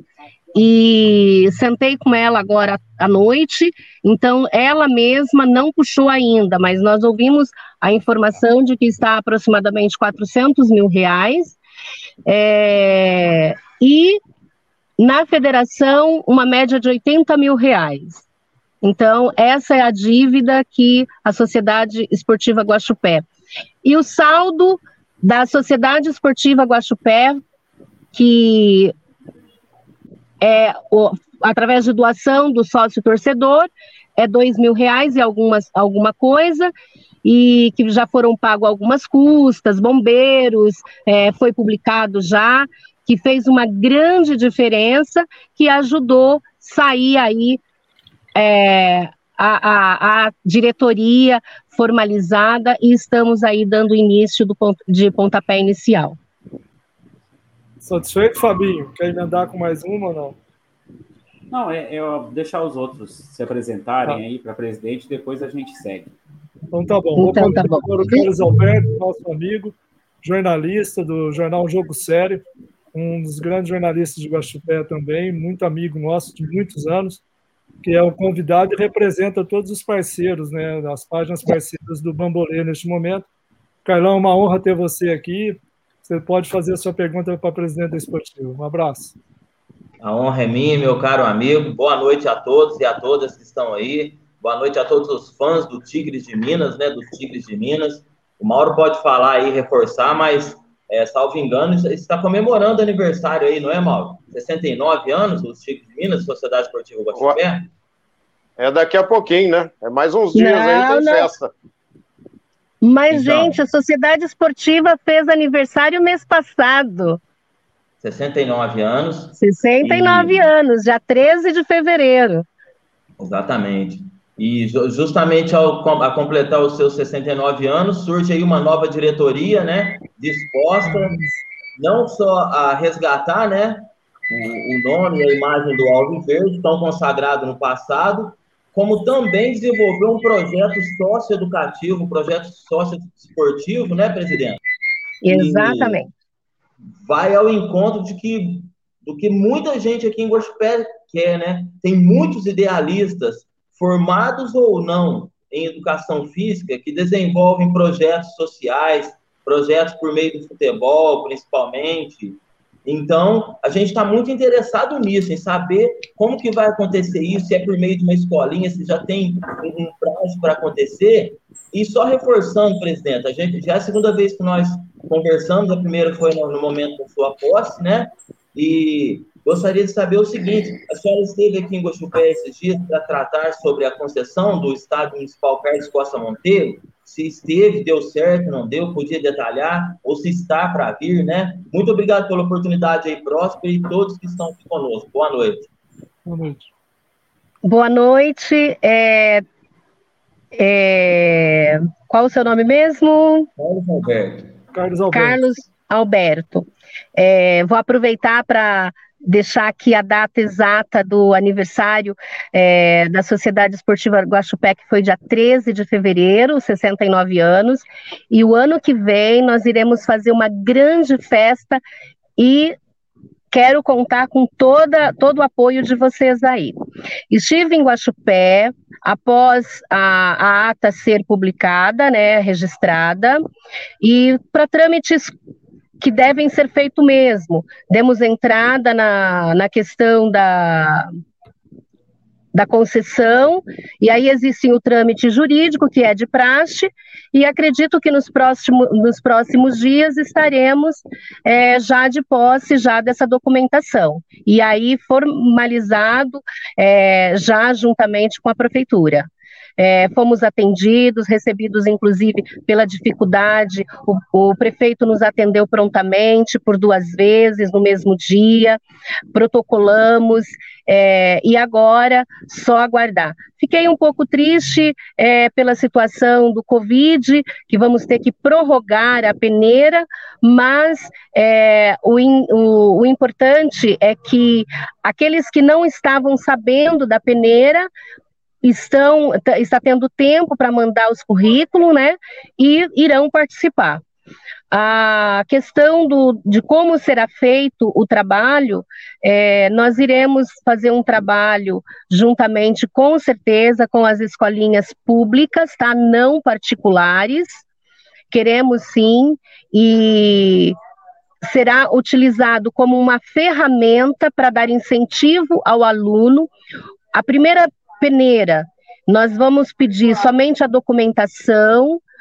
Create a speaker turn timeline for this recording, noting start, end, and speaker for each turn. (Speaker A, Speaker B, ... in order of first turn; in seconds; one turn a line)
Speaker A: 0.5-11.6
Speaker A: 12.3-14.2
Speaker A: 15.0-18.2
Speaker A: 18.8-23.2
Speaker A: 23.8-27.4
Speaker A: 28.1-28.9
Speaker A: 30.4-36.7
Speaker A: 37.2-47.6
Speaker A: 48.4-56.2
Speaker B: 57.8-60.4
Speaker C: 61.5-66.1
Speaker B: 66.7-72.4
Speaker A: 67.2-68.3
Speaker B: 72.9-77.2
Speaker B: 77.8-83.2
Speaker B: 83.8-89.1
Speaker D: 90.0-107.7
Speaker E: 108.6-111.5
Speaker A: 110.3-111.3
Speaker A: 112.8-117.2
Speaker D: 113.1-113.6
Speaker D: 118.0-120.5
Speaker A: 119.4-122.5
Speaker D: 123.2-131.2
Speaker B: 130.8-131.3
Speaker D: 131.8-144.6
Speaker A: 145.2-146.1
Speaker D: 145.3-146.0
Speaker D: 147.0-195.7
Speaker B: 196.2-196.7
Speaker A: 197.6-199.4
Speaker A: 200.5-203.5
Speaker D: 203.6-204.5
Speaker B: 204.7-205.4
Speaker A: 205.1-221.8
Speaker A: 222.4-222.8
Speaker A: 223.5-226.7
Speaker A: 227.3-233.4
Speaker A: 234.0-235.3
Speaker A: 236.0-241.1
Speaker A: 242.5-268.8
Speaker A: 269.3-287.9
Speaker A: 288.6-294.0
Speaker A: 294.7-307.6
Speaker A: 308.3-310.8
Speaker A: 311.4-316.5
Speaker A: 317.1-322.0